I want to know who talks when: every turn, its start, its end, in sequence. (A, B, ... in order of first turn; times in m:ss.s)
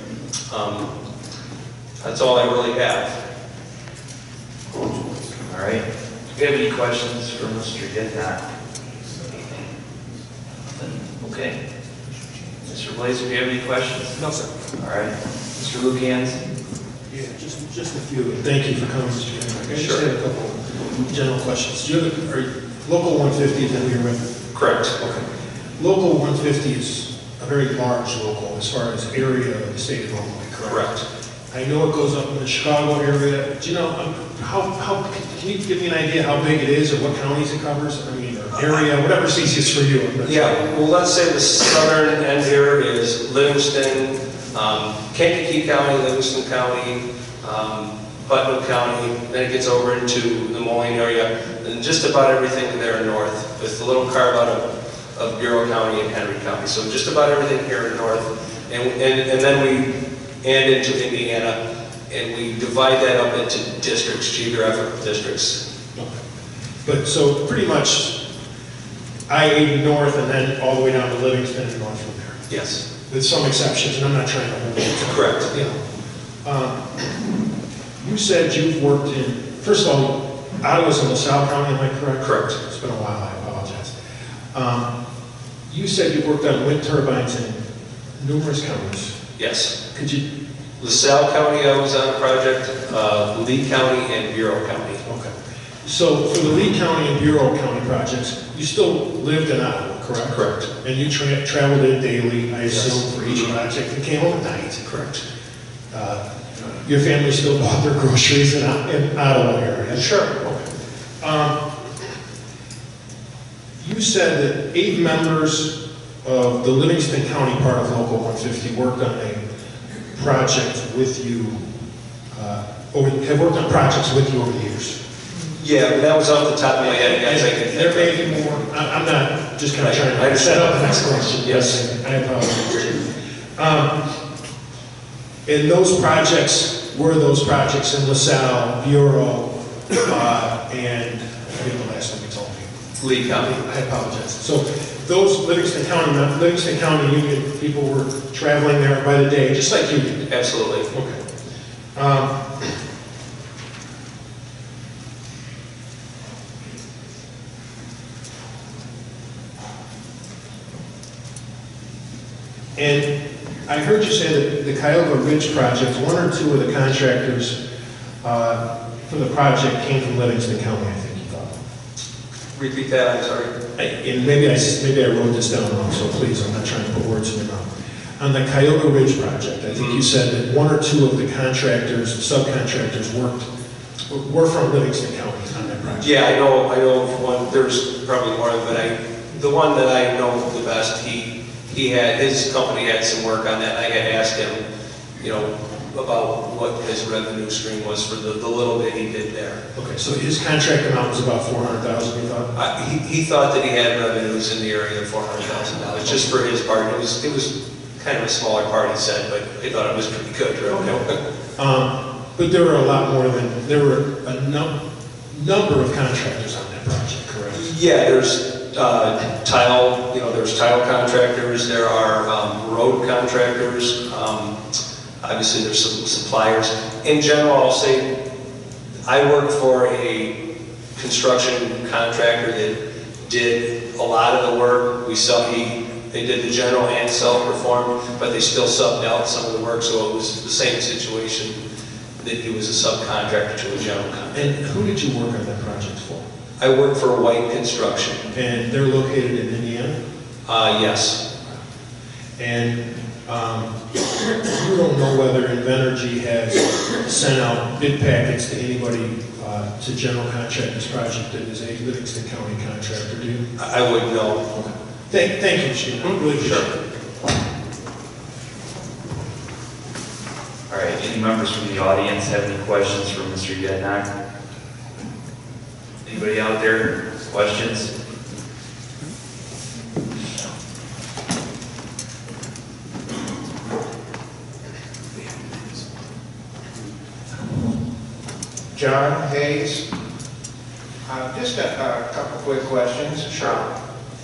0:00.5-0:00.9 A
0:02.0-0:03.2 A
0:05.4-0:08.4 B
0:10.7-0:11.6 B
0:12.6-0:14.2 B
0:14.2-0:14.5 C
0:14.8-0:16.4 B
0:17.1-0:24.2 C
0:19.7-0:20.0 A
0:24.5-0:25.0 A
0:25.8-0:30.9 C
0:30.6-0:31.0 A
0:31.5-0:40.6 C
0:40.2-0:54.6 A
0:55.1-0:59.9 A
1:00.4-1:01.6 A
1:02.1-1:05.6 A
1:06.8-1:08.2 C
1:09.3-1:12.4 C
1:12.5-1:12.8 A
1:13.1-1:15.8 C
1:15.0-1:15.5 A
1:16.4-1:17.0 C
1:18.0-1:23.9 C
1:22.2-1:22.6 A
1:24.5-1:24.9 C
1:25.7-1:27.6 C
1:28.2-1:29.1 C
1:29.4-1:29.7 A
1:29.9-1:30.2 C
1:30.8-1:35.0 A
1:35.0-1:35.3 C
1:35.8-1:45.2 C
1:40.3-1:40.7 A
1:42.7-1:42.9 A
1:45.9-1:46.2 C
1:46.8-1:50.2 C
1:50.0-1:50.6 A
1:51.2-1:51.6 C
1:53.8-1:59.4 C
2:00.1-2:01.6 C
2:02.3-2:05.0 C
2:05.4-2:08.4 A
2:07.1-2:13.0 C
2:09.8-2:11.8 A
2:13.6-2:14.0 C
2:15.4-2:22.7 C
2:23.0-2:23.5 A
2:23.3-2:30.3 C
2:30.3-2:30.9 A
2:30.9-2:31.2 C
2:31.9-2:32.7 C
2:42.8-2:43.1 C
2:43.7-2:47.6 C
2:48.2-2:51.5 C
2:52.5-2:53.5 A
2:53.8-3:03.5 C
3:04.1-3:06.1 C
3:06.0-3:14.6 A
3:15.2-3:19.6 A
3:19.7-3:22.5 C
3:22.5-3:31.2 A
3:30.7-3:31.0 C
3:31.6-3:34.7 C
3:35.3-3:37.7 C
3:37.5-3:44.6 A
3:45.2-3:48.1 A
3:49.0-3:50.3 A
3:50.9-4:01.6 A
4:02.2-4:04.5 A
4:04.3-4:06.2 C
4:06.6-4:08.2 A
4:08.3-4:10.0 C
4:10.4-4:11.2 A
4:12.4-4:13.7 C
4:14.3-4:23.4 C
4:23.6-4:24.5 A
4:24.5-4:26.8 C
4:26.1-4:26.6 A
4:30.7-4:34.1 B
4:36.0-4:37.9 B
4:48.7-4:49.8 D
4:51.0-4:53.7 D